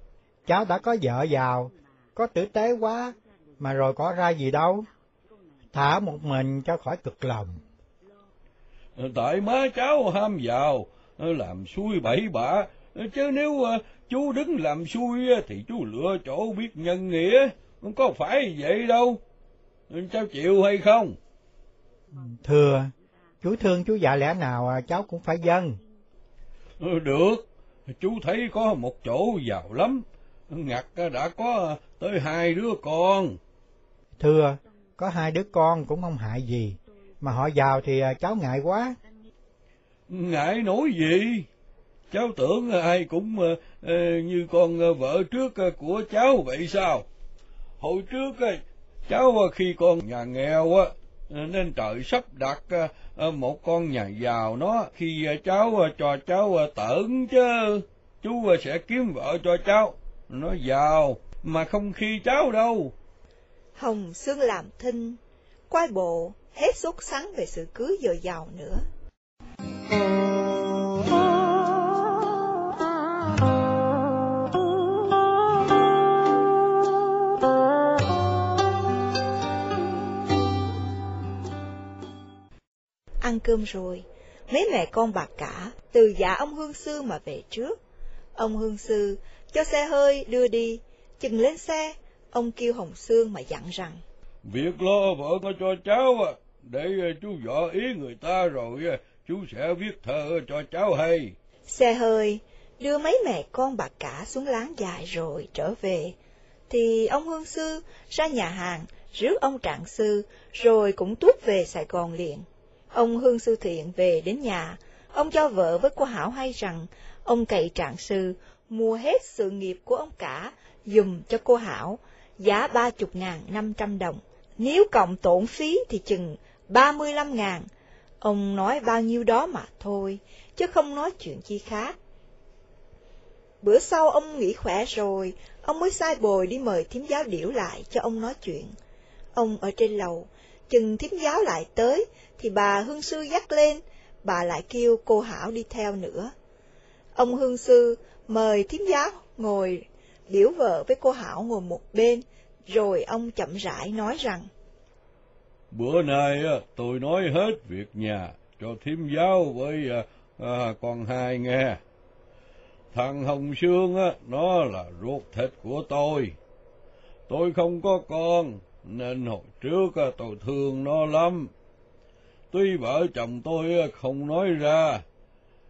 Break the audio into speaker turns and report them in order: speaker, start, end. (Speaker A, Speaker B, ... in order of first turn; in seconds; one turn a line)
Speaker A: 0.5-4.9
Speaker A: 5.7-7.6
Speaker B: 9.0-19.2
Speaker B: 19.9-21.2
Speaker A: 22.1-25.8
Speaker B: 26.8-33.4
Speaker A: 34.2-39.0
Speaker B: 40.1-41.5
Speaker B: 42.1-47.0
Speaker B: 47.8-62.9
Speaker C: 63.8-68.8
Speaker C: 83.2-87.8
Speaker C: 88.3-94.0
Speaker B: 94.4-101.3
Speaker C: 101.7-106.1
Speaker C: 106.7-127.7
Speaker C: 128.2-131.9
Speaker C: 133.6-138.7
Speaker C: 139.3-146.3
Speaker C: 147.1-154.5
Speaker B: 155.7-161.8
Speaker B: 162.9-166.3
Speaker B: 167.3-171.5
Speaker B: 172.5-175.0